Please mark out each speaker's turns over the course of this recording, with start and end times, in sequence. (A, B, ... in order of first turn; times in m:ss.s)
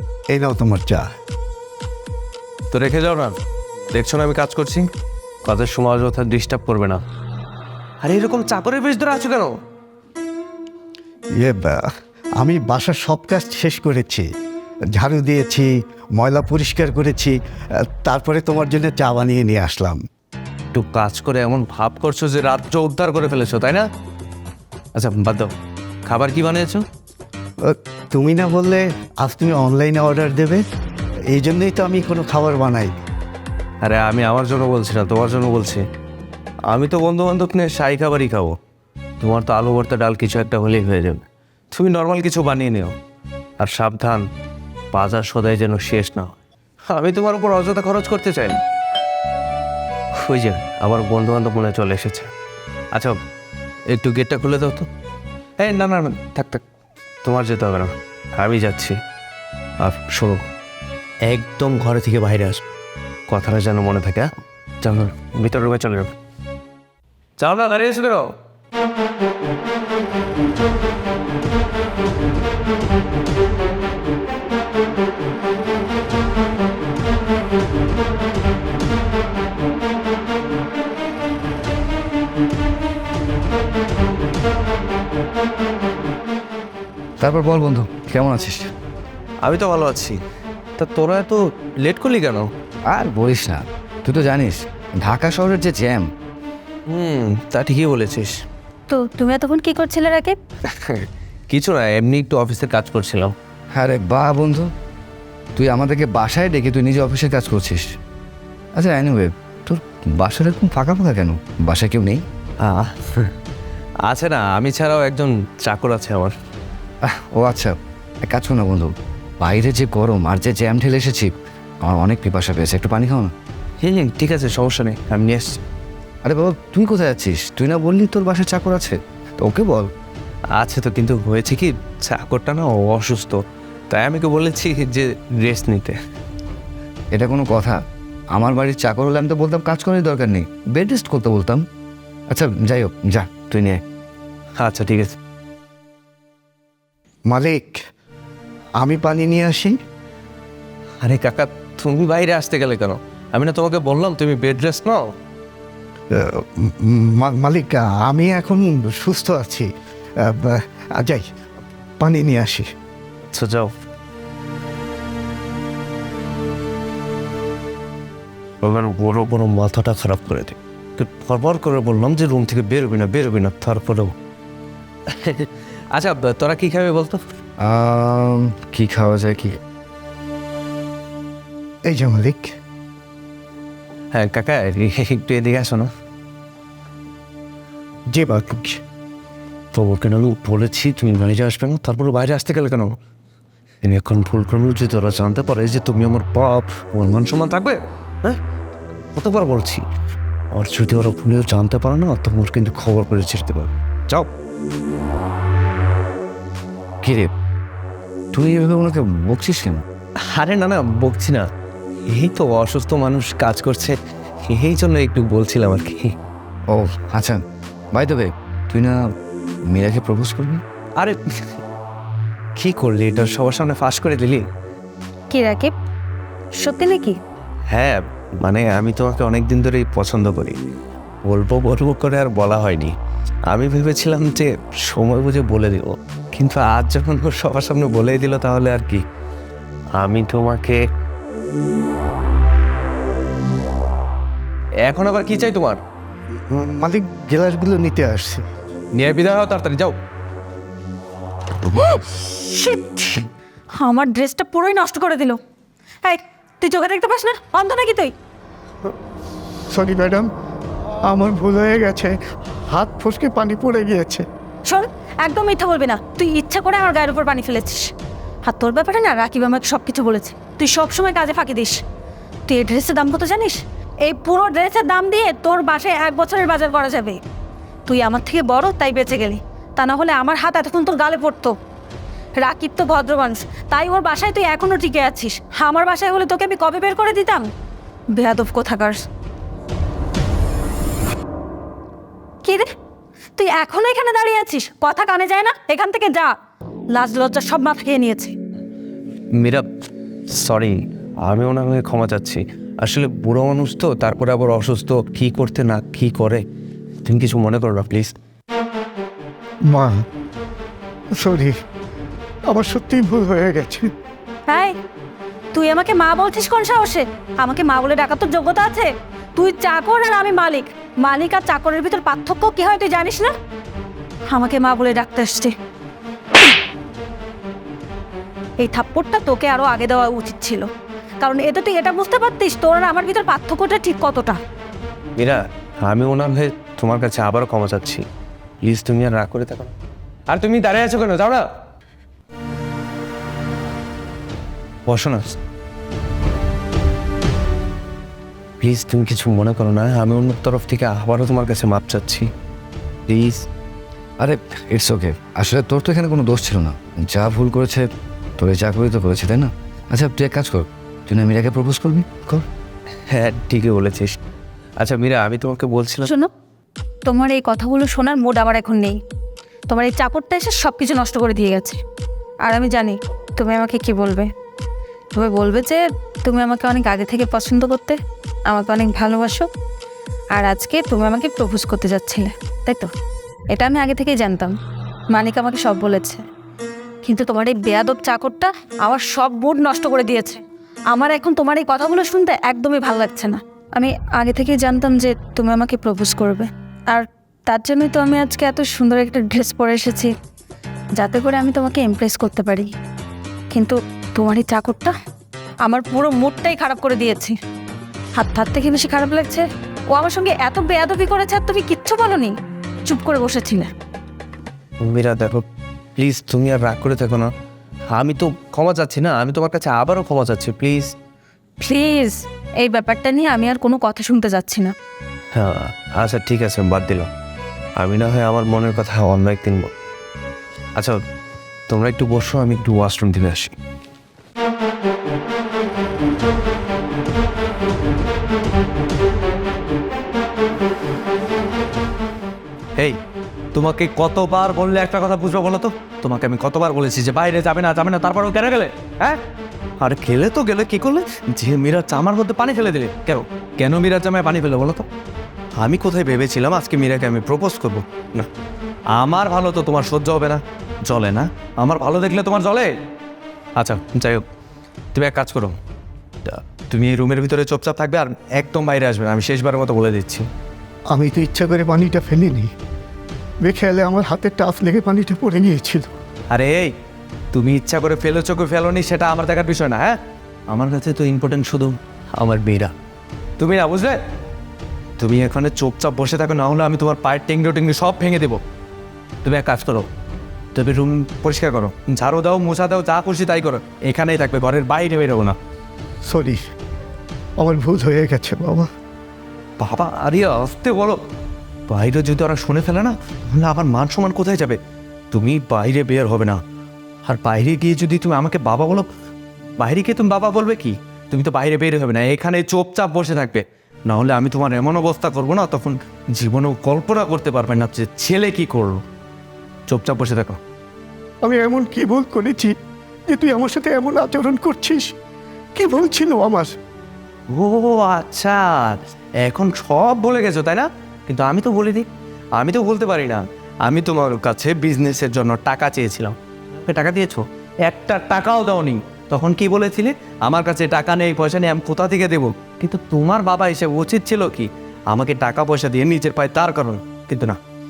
0:00.3-0:01.1 A
0:02.7-0:03.4 B
0:03.9-0:04.9 B
0:05.4-0:07.0 B
0:08.0-0:09.6 B
0:11.4-0:11.9 A
0:12.4-0:14.3 A
0:15.0-0:20.0 A
0:20.7-0:23.9 B
0:25.0-0:25.5 B
0:26.1-0:26.8 B
0:27.6-0:30.7 A
0:31.3-0:32.9 A
0:33.8-0:35.8 B
0:36.7-0:38.6 B
0:39.2-0:43.0 B
0:43.6-0:44.2 B
0:44.9-0:46.3 B
0:46.9-0:48.6 B
0:50.1-0:52.3 B
0:52.9-0:53.2 B
0:53.9-0:54.9 B
0:55.6-0:56.6 B
0:57.2-0:59.0 B
0:59.8-1:00.4 B
1:01.3-1:02.6 B
1:03.3-1:06.1 B
1:07.4-1:08.4 B
1:27.2-1:28.7 C
1:29.4-1:30.2 B
1:30.8-1:32.5 B
1:32.9-1:36.1 C
1:36.9-1:38.4 B
1:38.9-1:40.4 D
1:40.7-1:43.3 B
1:43.7-1:44.7 C
1:45.6-1:47.8 C
1:48.8-1:52.2 C
1:52.6-1:53.3 B
1:54.1-1:56.3 B
1:57.0-2:01.3 C
2:01.8-2:03.3 C
2:03.8-2:05.6 B
2:06.2-2:09.9 C
2:10.6-2:16.0 B
2:17.1-2:17.8 C
2:18.3-2:21.6 C
2:22.3-2:23.8 C
2:24.6-2:25.2 B
2:27.3-2:27.8 A
2:28.8-2:29.8 A
2:31.0-2:35.1 B
2:36.1-2:39.7 A
2:40.2-2:41.3 A
2:42.0-2:42.7 A
2:43.3-2:43.7 B
2:48.6-2:54.1 B
2:55.1-2:57.2 B
2:57.6-2:59.6 C
3:01.8-3:02.6 A
3:04.1-3:05.9 B
3:08.1-3:08.8 A
3:09.7-3:13.0 B
3:13.8-3:18.4 B
3:19.1-3:19.9 B
3:20.5-3:24.3 B
3:27.0-3:27.3 C
3:28.3-3:29.8 C
3:30.3-3:31.5 B
3:32.1-3:36.2 B
3:36.7-3:37.4 C
3:37.9-3:39.0 C
3:39.7-3:40.6 C
3:42.6-3:44.4 B
3:45.3-3:45.7 D
3:46.6-3:47.2 D
3:47.7-3:50.6 B
3:51.3-3:52.9 B
3:53.5-3:59.0 B
4:00.0-4:00.8 B
4:04.8-4:05.8 B
4:06.5-4:08.5 A
4:08.9-4:10.0 B
4:11.7-4:13.2 D
4:13.8-4:15.4 D
4:16.0-4:18.1 D
4:19.7-4:20.3 A
4:21.0-4:22.2 A
4:22.7-4:24.3 A
4:24.7-4:27.9 D
4:28.4-4:31.8 D
4:32.5-4:37.2 D
4:37.9-4:41.5 D
4:42.4-4:47.5 D
4:48.2-4:49.0 D
4:52.4-4:52.7 D
4:53.4-4:56.3 D
4:56.9-4:58.4 D
4:59.4-4:59.7 B
5:00.3-5:06.4 B
5:07.0-5:08.1 B
5:09.7-5:10.0 A
5:11.1-5:11.5 A
5:12.5-5:13.9 A
5:14.5-5:14.8 D
5:15.5-5:23.3 D
5:24.3-5:25.5 D
5:28.6-5:30.7 D
5:31.2-5:34.4 D
5:35.2-5:38.0 B
5:38.6-5:39.7 B
5:40.3-5:41.5 B
5:44.9-5:45.4 B
5:48.6-5:52.3 B
5:53.1-5:53.4 B
5:54.2-5:57.9 C
5:58.4-6:02.5 C
6:03.1-6:04.2 B
6:04.8-6:06.1 B
6:07.1-6:09.0 D
6:09.7-6:11.8 D
6:12.4-6:14.3 D
6:15.1-6:19.5 D
6:20.3-6:22.9 D
6:23.5-6:24.6 D
6:25.1-6:26.2 D
6:27.0-6:40.1 D
6:41.0-6:42.7 D
6:43.5-6:44.9 D
6:45.6-6:47.4 D
6:48.2-6:52.4 D
6:52.9-6:53.7 D
6:54.8-6:57.3 B
6:57.9-7:00.9 B
7:01.6-7:04.7 D
7:05.3-7:07.1 B
7:07.8-7:09.7 B
7:11.7-7:13.6 B
7:23.5-7:29.2 B
7:29.8-7:34.9 B
7:35.6-7:38.3 B
7:38.9-7:42.8 B
7:43.6-7:44.2 B
7:44.9-7:45.6 B
7:46.2-7:50.3 B
7:50.9-7:52.5 A
7:53.4-7:55.9 A
7:56.3-7:56.7 B
7:57.3-8:00.0 B
8:00.5-8:02.7 B
8:03.4-8:04.0 B
8:05.0-8:08.4 B
8:09.2-8:09.9 B
8:10.6-8:15.4 B
8:16.1-8:16.4 A
8:17.4-8:18.7 A
8:19.6-8:21.0 B
8:21.7-8:24.6 B
8:25.1-8:26.4 B
8:27.1-8:28.9 B
8:29.6-8:38.8 B
8:39.7-8:40.4 B
8:41.2-8:42.6 A
8:43.1-8:44.9 A
8:45.6-8:46.6 A
8:47.3-9:07.4 B